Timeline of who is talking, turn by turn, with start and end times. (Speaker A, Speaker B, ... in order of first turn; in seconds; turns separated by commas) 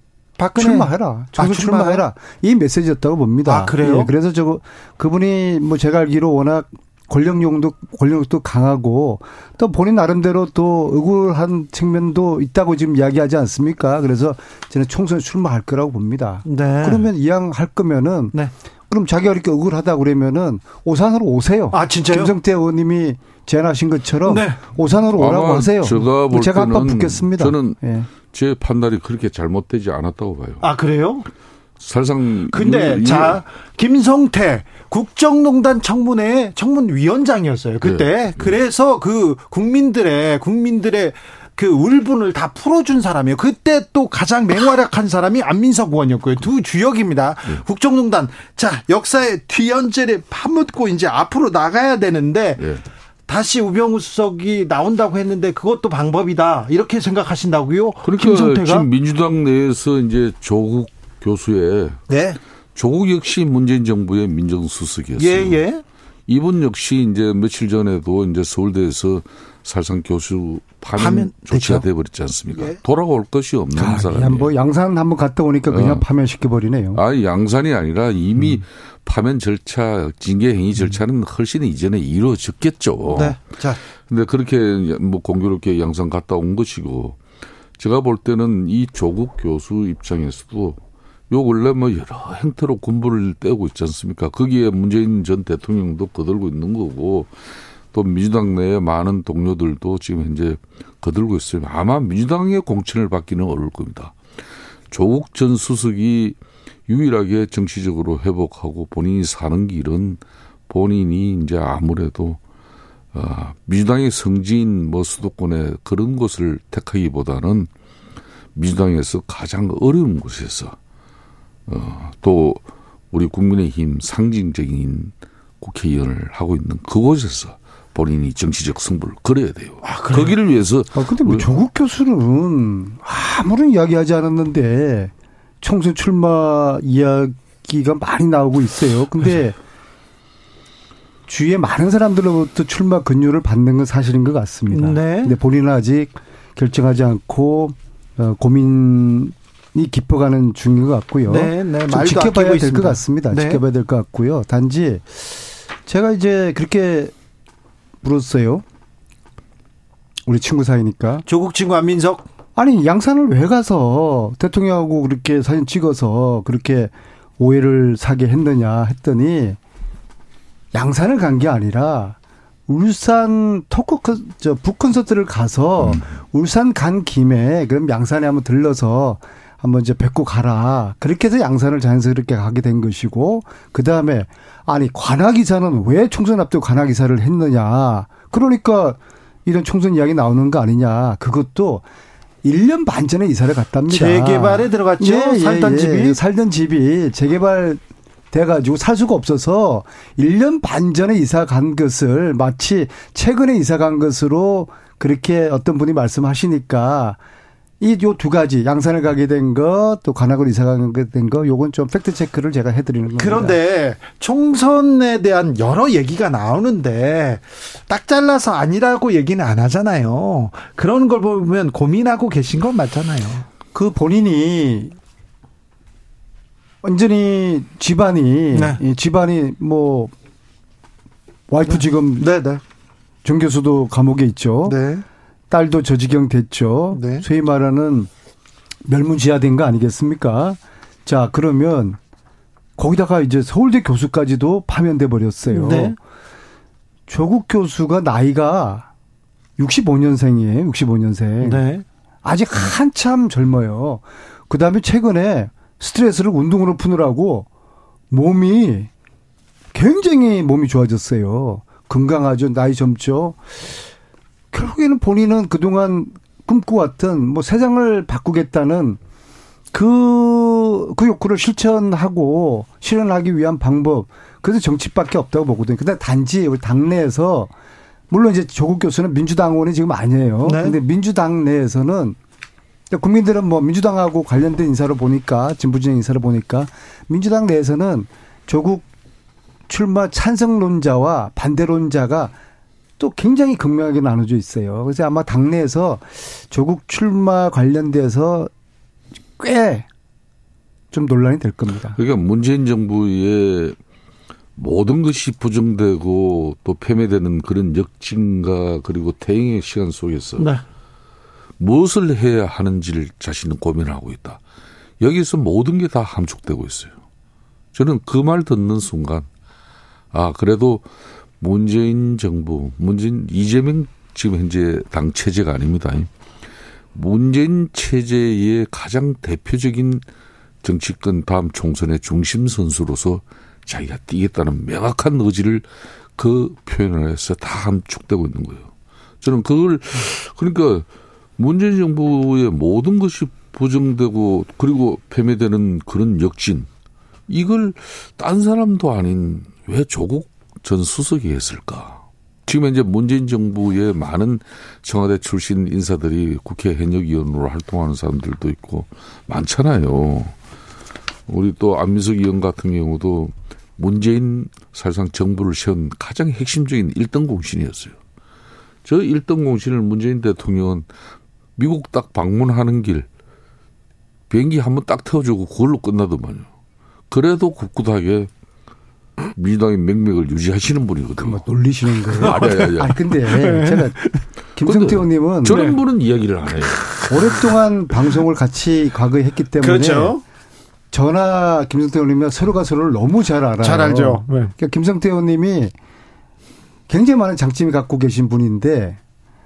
Speaker A: 0.4-2.0, Speaker B: 0.6-18.3, Speaker A: 3.5-4.1, Speaker A: 16.4-17.1, Speaker B: 18.9-28.1, Speaker A: 21.7-22.3, Speaker A: 24.2-24.6, Speaker C: 25.2-30.7, Speaker A: 30.6-31.3, Speaker C: 31.8-33.4, Speaker A: 32.5-52.7, Speaker C: 37.8-38.6, Speaker C: 52.6-52.8, Speaker A: 53.3-58.9, Speaker C: 58.0-62.0, Speaker A: 62.1-62.4, Speaker C: 62.7-65.6, Speaker A: 65.2-65.8, Speaker C: 66.3-74.5, Speaker A: 71.0-71.8, Speaker B: 73.8-77.0, Speaker C: 75.7-76.0, Speaker C: 76.9-83.4, Speaker A: 83.1-83.8, Speaker C: 84.1-87.2, Speaker C: 87.8-90.8, Speaker C: 91.3-97.3, Speaker C: 97.9-104.2, Speaker C: 104.9-112.4, Speaker C: 113.1-117.7, Speaker C: 118.5-120.8, Speaker C: 121.7-122.6, Speaker C: 123.1-131.5, Speaker A: 129.8-130.3, Speaker B: 130.9-139.6, Speaker B: 141.3-155.3, Speaker A: 144.7-145.3, Speaker A: 151.2-153.6, Speaker B: 155.8-157.1, Speaker B: 158.0-158.6, Speaker B: 160.3-161.2, Speaker A: 161.3-162.2, Speaker B: 162.6-169.6, Speaker B: 170.7-172.2, Speaker B: 172.7-191.8, Speaker B: 192.4-197.8, Speaker A: 193.9-196.2, Speaker B: 198.3-207.2, Speaker B: 207.8-213.6, Speaker A: 213.2-223.4, Speaker B: 223.7-224.9, Speaker B: 226.8-230.1, Speaker A: 228.5-228.8, Speaker B: 231.5-232.3, Speaker A: 231.7-232.6, Speaker B: 233.2-234.8, Speaker A: 234.7-235.0, Speaker B: 235.5-238.1, Speaker A: 236.9-237.2, Speaker B: 238.8-242.0, Speaker B: 242.8-245.9, Speaker A: 245.5-245.9, Speaker B: 247.1-248.9, Speaker B: 249.6-251.6, Speaker A: 251.4-251.8, Speaker B: 252.2-257.5, Speaker B: 258.1-258.9, Speaker B: 259.7-263.4, Speaker B: 264.5-269.0, Speaker B: 269.7-277.5, Speaker B: 278.1-282.2, Speaker A: 280.4-280.8, Speaker B: 282.9-288.9, Speaker B: 289.7-292.3, Speaker B: 293.0-298.5, Speaker B: 299.4-299.9, Speaker B: 300.9-302.0, Speaker C: 301.9-303.8, Speaker C: 304.6-310.5, Speaker A: 310.4-310.6, Speaker C: 311.6-314.4, Speaker C: 315.0-316.9, Speaker C: 317.7-319.3, Speaker C: 320.1-320.9, Speaker C: 321.4-326.1, Speaker C: 326.9-330.0, Speaker C: 330.6-338.7, Speaker C: 339.2-340.9, Speaker C: 341.4-346.7, Speaker C: 347.3-360.3, Speaker C: 361.3-368.0, Speaker C: 368.8-370.9, Speaker C: 371.6-373.1, Speaker C: 374.3-376.5, Speaker C: 377.1-378.3, Speaker C: 379.3-381.4, Speaker B: 381.2-384.0, Speaker C: 382.2-383.0, Speaker A: 382.2-384.2, Speaker B: 384.5-385.6, Speaker C: 384.6-387.4, Speaker A: 385.4-385.8, Speaker B: 387.1-390.2, Speaker A: 389.6-390.2, Speaker B: 390.9-395.7, Speaker A: 393.6-394.5, Speaker B: 396.9-399.0